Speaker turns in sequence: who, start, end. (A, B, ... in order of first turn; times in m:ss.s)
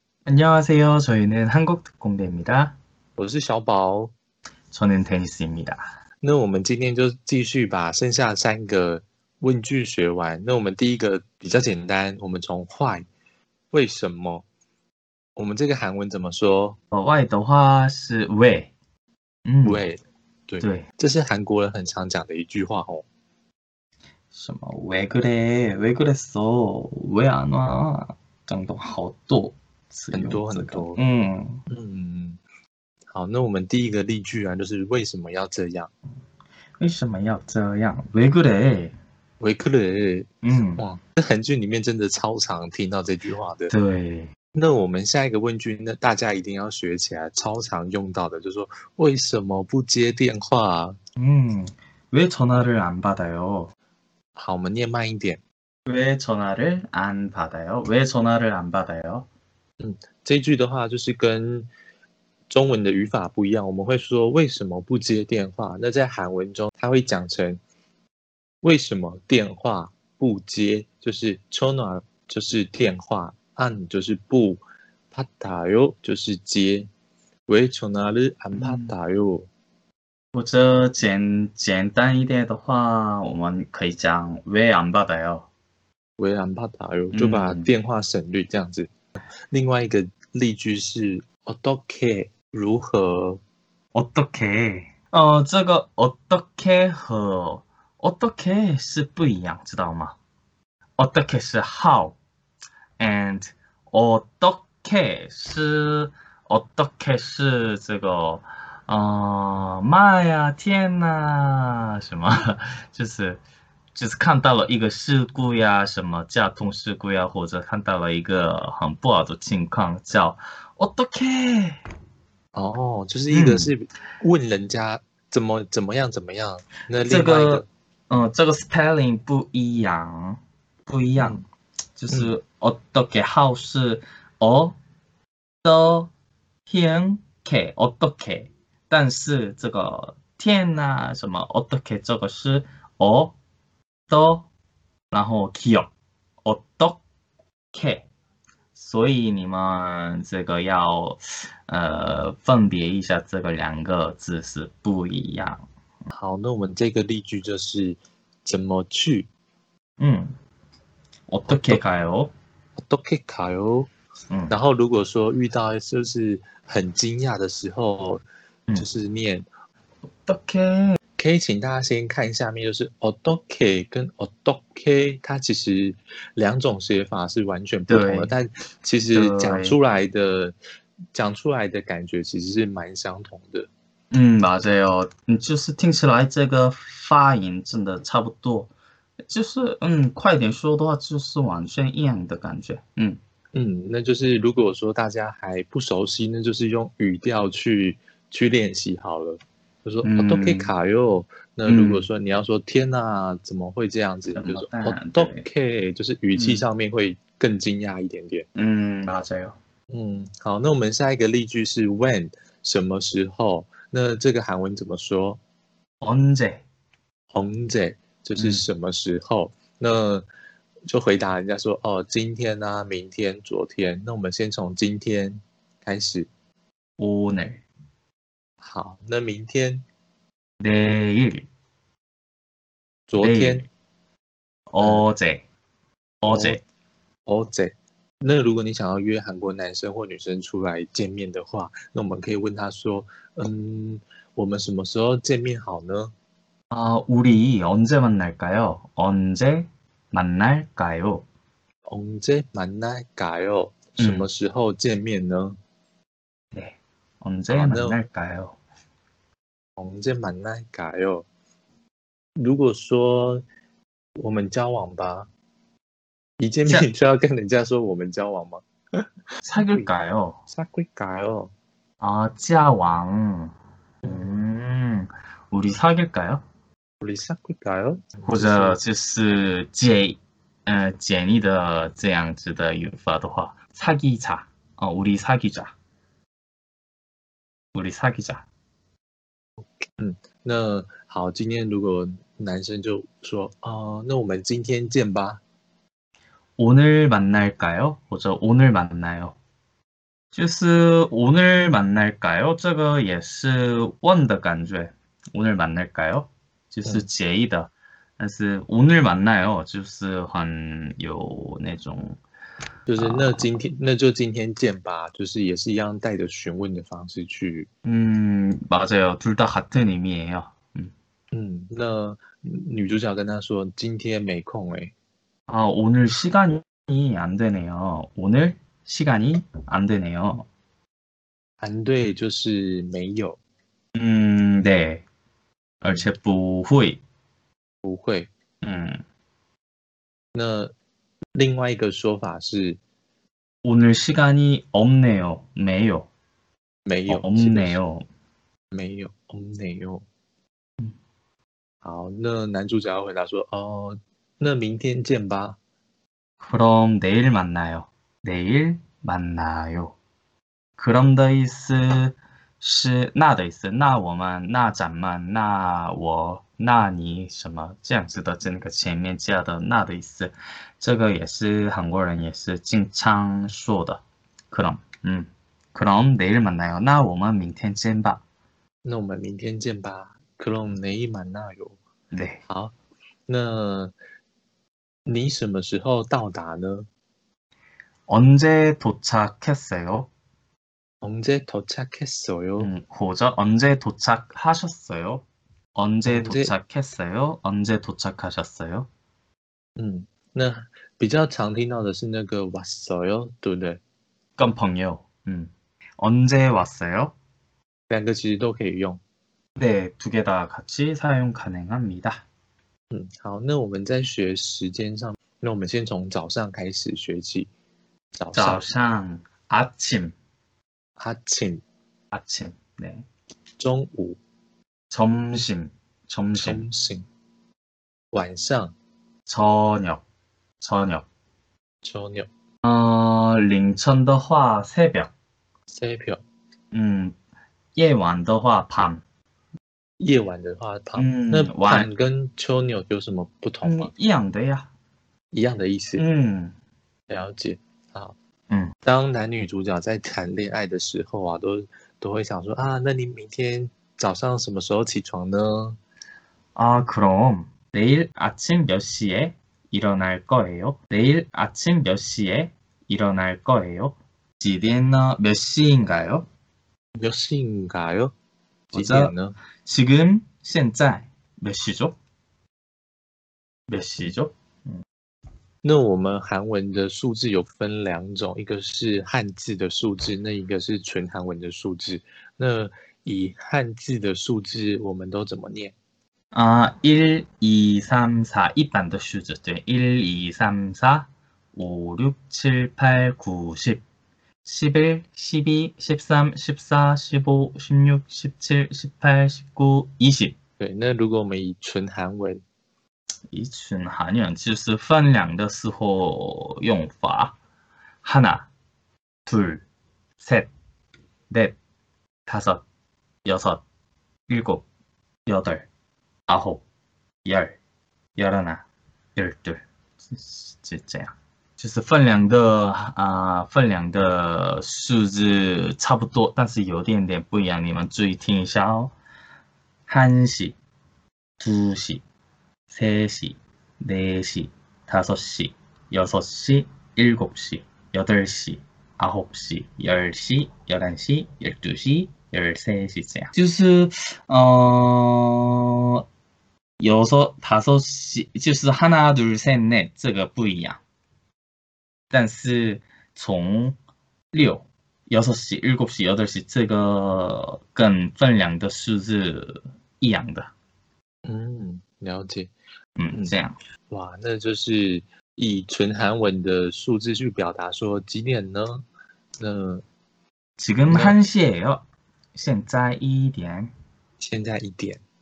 0:00.3-0:02.8 A
0:03.2-0:04.1 B
0:04.7-0:05.8 A
0:06.2-0:13.1 B
0:13.7-0:14.5 B
0:15.4-0:16.8 B
0:16.9-0:18.7 A
0:19.4-0:19.8 A
0:19.6-0:23.0 B
0:20.6-0:20.9 A
0:24.3-0:31.6 A
0:30.1-0:31.0 B
0:31.7-0:32.4 B
0:33.1-0:35.9 B
0:36.8-0:39.0 A
0:39.4-0:43.7 B
0:40.4-0:40.8 A
0:43.7-0:44.3 A
0:44.5-0:51.0 B
0:51.2-0:53.7 A
0:54.4-0:55.4 B
0:55.9-0:59.3 A
0:59.8-1:01.7 B
1:02.5-1:07.6 B
1:08.6-1:16.9 B
1:17.5-1:19.5 B
1:18.5-1:18.9 A
1:20.3-1:25.5 A
1:26.2-1:28.9 B
1:27.1-1:27.7 A
1:29.5-1:33.4 B
1:33.9-1:40.2 A
1:41.0-1:42.2 A
1:43.0-1:53.4 A
1:53.9-2:01.8 A
2:02.5-2:07.7 B
2:03.3-2:03.7 A
2:07.0-2:11.4 A
2:11.2-2:11.4 B
2:12.0-2:14.8 A
2:15.6-2:16.1 A
2:16.7-2:23.4 A
2:24.1-2:24.5 A
2:25.1-2:25.9 A
2:26.4-2:27.0 A
2:27.7-2:28.1 A
2:28.7-2:35.6 A
2:36.1-2:39.3 B
2:40.0-2:40.3 A
2:41.3-2:42.3 A
2:41.5-2:41.8 B
2:42.8-2:43.9 B
2:44.3-2:44.6 A
2:44.5-2:49.5 B
2:50.2-2:51.0 A
2:51.2-3:00.6 B
2:57.9-2:58.3 A
2:59.1-2:59.8 A
3:01.1-3:03.7 B
3:04.1-3:08.7 A
3:09.3-3:13.2 A
3:13.5-3:28.5 B
3:20.0-3:20.7 A
3:21.6-3:22.1 A
3:24.3-3:25.5 A
3:26.4-3:26.7 A
3:28.6-3:29.6 A
3:29.9-3:35.4 B
3:36.0-3:36.6 A
3:37.3-3:40.3 B
3:38.4-3:38.6 A
3:40.9-3:46.3 B
3:47.0-3:47.6 A
3:48.6-3:49.8 B
3:50.6-3:51.5 A
3:53.1-3:53.7 B
3:53.2-3:53.7 A
3:54.7-3:55.4 A
3:56.2-3:56.6 A
3:56.3-3:56.6 B
3:57.3-4:06.1 B
4:06.7-4:11.3 A
4:11.9-4:15.6 B
4:14.0-4:14.3 A
4:16.5-4:18.6 A
4:17.5-4:18.0 B
4:19.8-4:21.3 B
4:22.4-4:23.4 B
4:24.2-4:25.3 B
4:26.4-4:29.0 B
4:29.4-4:30.4 A
4:29.6-4:29.9 B
4:30.5-4:31.5 B
4:32.0-4:36.4 A
4:37.0-4:38.8 B
4:38.2-4:45.7 A
4:47.7-4:48.5 A
4:49.6-4:55.4 B
4:56.6-4:59.4 A
5:00.3-5:12.2 A
5:12.9-5:17.7 B
5:13.0-5:13.5 A
5:17.8-5:20.9 A
5:21.3-5:24.9 B
5:25.5-5:30.5 A
5:31.6-5:33.4 B
5:34.0-5:35.0 A
5:35.8-5:37.0 A
5:37.8-5:38.3 B
5:38.6-5:39.0 A
5:40.3-5:40.7 B
5:41.4-5:42.8 B
5:43.6-5:46.1 A
5:46.9-5:47.8 B
5:47.1-5:48.1 A
5:48.7-5:50.1 B
5:51.8-5:55.6 B
5:56.4-6:00.0 A
6:00.8-6:18.2 A
6:18.8-6:21.8 B
6:22.1-6:22.4 A
6:22.5-6:22.8 B
6:23.3-6:23.9 B
6:25.1-6:26.9 B
6:28.1-6:30.1 A
6:31.0-6:32.7 B
6:32.6-6:38.9 A
6:36.0-6:36.5 B
6:39.8-6:43.8 B
6:44.4-6:47.2 A
6:47.9-6:49.0 B
6:49.6-6:52.2 A
6:52.9-6:57.5 B
6:58.2-6:58.6 B
6:58.4-7:00.1 A
7:01.0-7:01.6 B
7:02.1-7:03.1 A
7:03.6-7:04.2 B
7:04.9-7:06.6 A
7:06.4-7:07.1 B
7:08.1-7:08.7 B
7:09.3-7:10.0 A
7:10.6-7:11.1 A
7:11.8-7:12.3 B
7:12.6-7:15.1 A
7:15.7-7:16.2 B
7:16.7-7:17.2 A
7:17.8-7:19.0 A
7:20.0-7:23.9 B
7:21.0-7:21.9 A
7:23.6-7:24.7 A
7:25.3-7:26.0 B
7:26.0-7:26.6 A
7:27.1-7:28.2 B
7:28.5-7:28.7 A
7:28.8-7:35.8 B
7:36.6-7:46.3 A
7:47.0-7:48.1 B
7:48.7-7:49.4 B
7:48.7-7:52.0 A
7:53.7-7:54.8 A
7:55.6-8:05.8 B
8:06.3-8:13.8 A
8:14.4-8:20.4 A
8:20.6-8:22.4 B
8:23.3-8:27.4 A
8:28.0-8:28.5 A
8:29.3-8:29.6 A
8:30.2-8:30.5 A
8:31.3-8:31.6 A
8:32.3-8:32.6 A
8:33.2-8:33.6 A
8:34.3-8:34.7 A
8:35.3-8:35.7 A
8:36.3-8:36.6 A
8:37.2-8:37.6 A
8:38.2-8:38.6 A
8:39.2-8:49.0 A
8:49.9-8:50.6 A
8:51.4-8:52.0 A
8:52.7-9:06.0 A
9:06.8-9:10.8 A
9:12.1-9:13.8 A
9:14.3-9:20.5 A
9:21.2-9:22.5 B
9:23.0-9:23.6 A
9:23.9-9:28.8 B
9:29.4-9:29.8 B
9:30.6-9:31.8 A
9:30.9-9:31.2 B
9:32.3-9:33.7 A
9:34.2-9:35.0 B